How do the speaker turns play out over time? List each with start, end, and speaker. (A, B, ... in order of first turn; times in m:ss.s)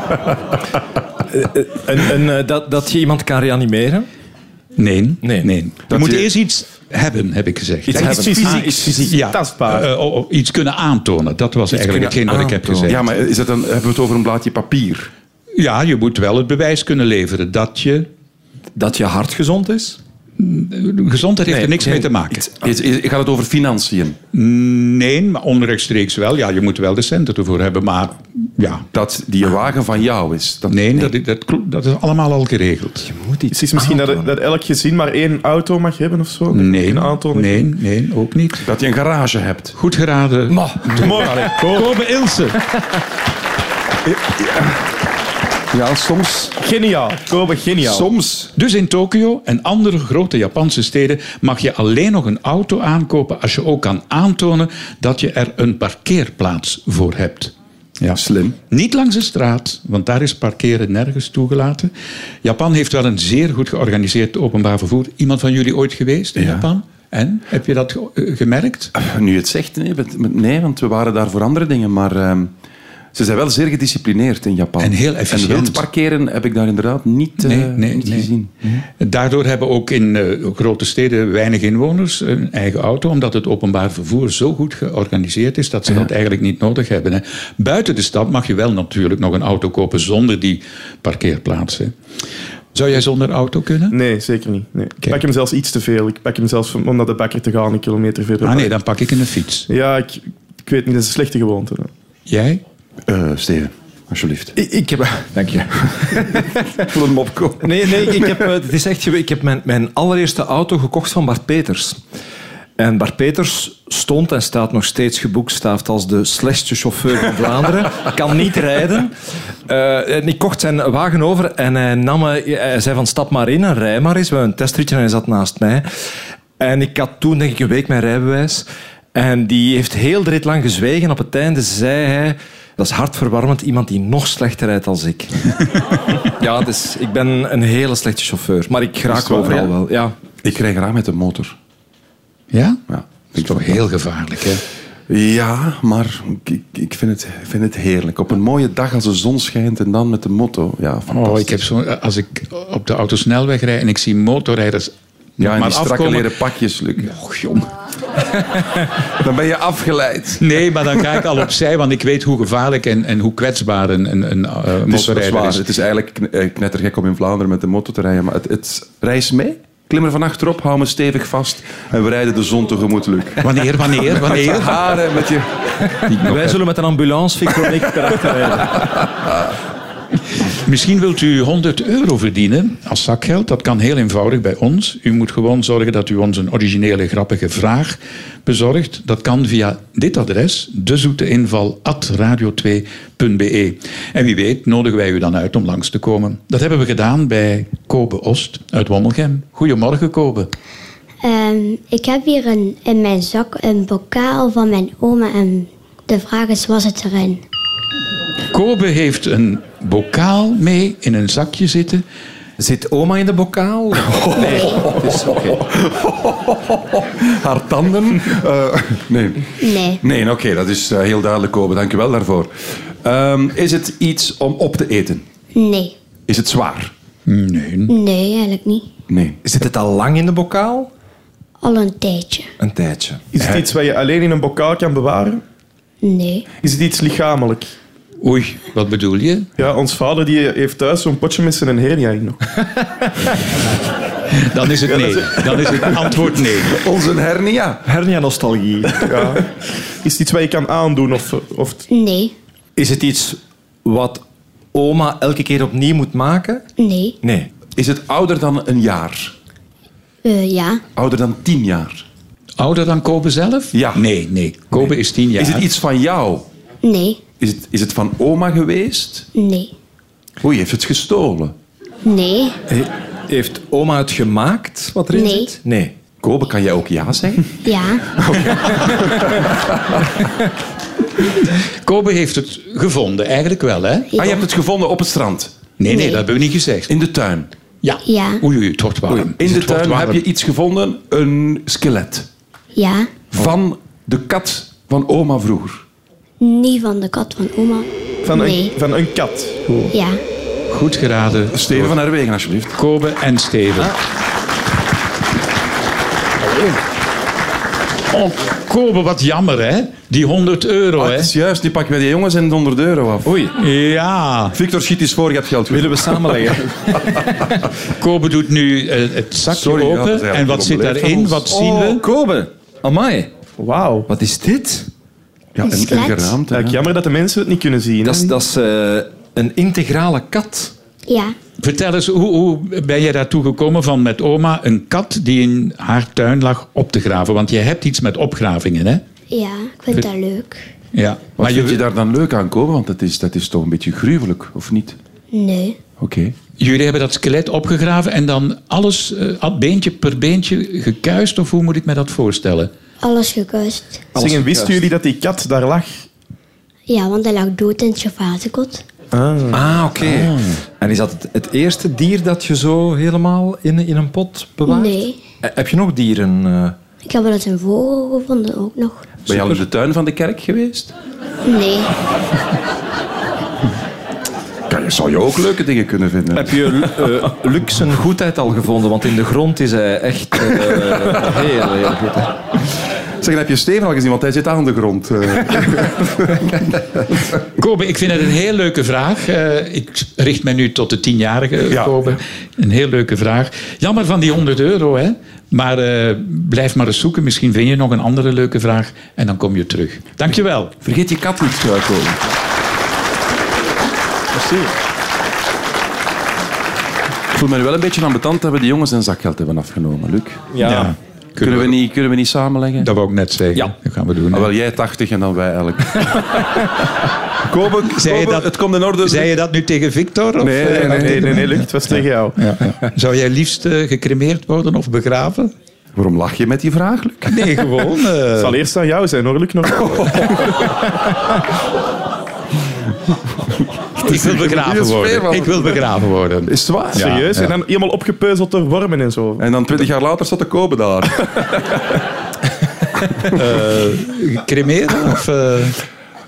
0:01.3-0:04.1 A
0:04.8-0:13.0 B
0:05.2-0:05.5 A
0:05.9-0:06.3 C
0:07.9-0:09.1 A
0:07.9-0:09.9 D
0:11.7-0:13.0 A
0:12.9-0:15.1 C
0:15.6-0:18.1 B
0:18.8-0:20.0 A
0:20.4-0:22.5 B
0:21.5-0:22.4 A
0:22.5-0:24.2 C
0:24.3-0:28.9 B
0:28.9-0:31.1 C
0:30.7-0:33.1 B
0:33.0-0:34.3 A
0:33.5-0:37.7 D
0:36.5-0:38.7 B
0:38.6-0:39.8 C
0:39.8-0:42.7 B
0:41.0-0:41.9 D
0:44.1-0:44.7 C
0:45.7-0:46.6 C
0:46.6-0:48.1 D
0:47.8-0:48.5 C
0:48.6-1:01.9 B
0:58.1-0:58.6 C
1:02.4-1:08.9 B
1:06.4-1:06.6 C
1:09.0-1:12.5 C
1:13.1-1:18.8 C
1:14.8-1:15.8 B
1:17.4-1:32.0 B
1:32.7-1:34.0 B
1:33.9-1:38.8 D
1:38.4-1:39.7 B
1:39.7-1:41.9 D
1:42.3-1:42.6 B
1:43.1-1:44.5 C
1:44.6-1:46.6 A
1:46.8-1:48.5 C
1:47.6-1:52.0 A
1:52.8-1:59.1 A
1:59.7-2:05.9 A
2:06.6-2:15.5 A
2:16.2-2:20.1 A
2:19.1-2:19.7 C
2:20.4-2:21.6 C
2:22.5-2:24.6 B
2:22.9-2:23.8 C
2:25.1-2:31.6 C
2:31.1-2:36.4 B
2:35.4-2:37.2 C
2:37.1-2:37.7 B
2:39.2-2:41.3 C
2:40.4-2:45.6 B
2:44.9-2:55.8 C
2:53.4-2:55.0 B
2:56.1-2:58.9 A
2:56.1-2:56.6 B
3:00.6-3:20.5 B
3:21.2-3:27.4 E
3:28.5-3:32.0 B
3:32.6-3:35.6 A
3:34.1-3:45.2 C
3:39.6-3:40.0 E
3:45.6-3:46.0 E
3:46.3-3:46.9 C
3:47.3-3:47.9 B
3:47.9-3:48.9 E
3:49.1-3:49.4 C
3:49.4-3:50.9 A
3:51.6-3:52.5 E
3:52.6-3:53.2 A
3:53.3-3:55.4 D
3:53.4-3:53.7 C
3:56.0-3:56.5 E
3:56.6-3:57.7 D
3:58.2-3:59.5 B
3:59.6-4:02.4 D
4:04.4-4:06.8 B
4:06.1-4:07.8 C
4:07.8-4:09.0 A
4:09.0-4:09.3 C
4:09.1-4:09.4 D
4:10.0-4:11.9 D
4:11.9-4:12.3 E
4:12.8-4:14.2 A
4:14.7-4:16.6 A
4:16.8-4:17.2 E
4:17.2-4:17.5 A
4:17.8-4:19.3 C
4:20.2-4:20.8 E
4:21.0-4:22.1 C
4:22.6-4:25.7 B
4:23.7-4:24.1 C
4:24.7-4:26.5 C
4:26.8-4:27.2 E
4:27.4-4:29.3 C
4:29.4-4:29.7 E
4:30.4-4:31.6 C
4:32.0-4:32.6 E
4:32.7-4:36.0 A
4:35.1-4:35.5 E
4:36.2-4:37.5 C
4:37.6-4:38.1 E
4:38.2-4:40.0 C
4:41.6-4:44.1 B
4:44.2-4:44.4 E
4:44.2-4:45.7 C
4:45.8-4:46.9 B
4:45.9-4:46.2 E
4:46.9-4:47.5 C
4:47.8-4:50.2 B
4:48.0-4:48.4 E
4:49.1-4:52.3 C
4:52.8-4:53.2 E
4:53.3-4:55.8 C
4:56.4-4:58.7 E
4:58.2-4:59.8 D
4:59.9-5:00.2 E
5:00.7-5:02.0 B
5:01.5-5:02.8 C
5:02.8-5:04.0 B
5:08.1-5:11.3 B
5:11.0-5:13.5 C
5:13.2-5:13.5 A
5:13.6-5:14.6 B
5:14.5-5:17.3 C
5:15.7-5:17.1 A
5:18.0-5:22.0 B
5:19.5-5:21.5 C
5:21.5-5:23.3 A
5:23.6-5:24.1 D
5:24.1-5:24.9 A
5:25.6-5:26.8 C
5:25.7-5:26.4 E
5:26.5-5:28.4 D
5:28.0-5:30.7 A
5:31.1-5:31.4 E
5:31.6-5:39.0 B
5:39.3-5:40.6 E
5:40.9-5:41.8 B
5:41.4-5:45.0 C
5:45.3-5:45.8 E
5:46.0-5:46.4 C
5:46.6-5:52.7 B
5:53.0-5:54.0 E
5:54.1-5:54.9 A
5:54.2-5:56.1 D
5:56.9-5:58.8 E
5:59.1-5:59.6 D
5:59.5-6:06.8 A
6:04.7-6:05.2 E
6:07.0-6:09.1 E
6:09.3-6:11.0 C
6:09.3-6:09.6 A
6:11.4-6:11.9 E
6:14.7-6:17.1 C
6:16.3-6:22.4 A
6:23.2-6:26.7 C
6:27.6-6:40.7 B
6:31.6-6:32.2 C
6:40.8-6:42.2 C
6:44.4-6:44.7 A
6:47.3-6:50.5 C
6:50.5-6:50.9 A
6:50.6-6:51.8 B
6:51.4-6:52.9 C
6:52.8-6:54.5 B
6:54.3-6:56.6 C
6:57.4-6:59.3 C
6:57.9-7:01.7 B
7:00.4-7:01.4 C
7:00.6-7:02.5 D
7:02.4-7:05.5 B
7:06.0-7:07.5 C
7:07.3-7:08.6 B
7:08.4-7:10.4 D
7:09.7-7:10.7 C
7:14.0-7:15.9 C
7:14.0-7:17.5 B
7:16.5-7:17.1 C
7:17.0-7:19.5 D
7:19.4-7:22.0 C
7:23.3-7:25.8 B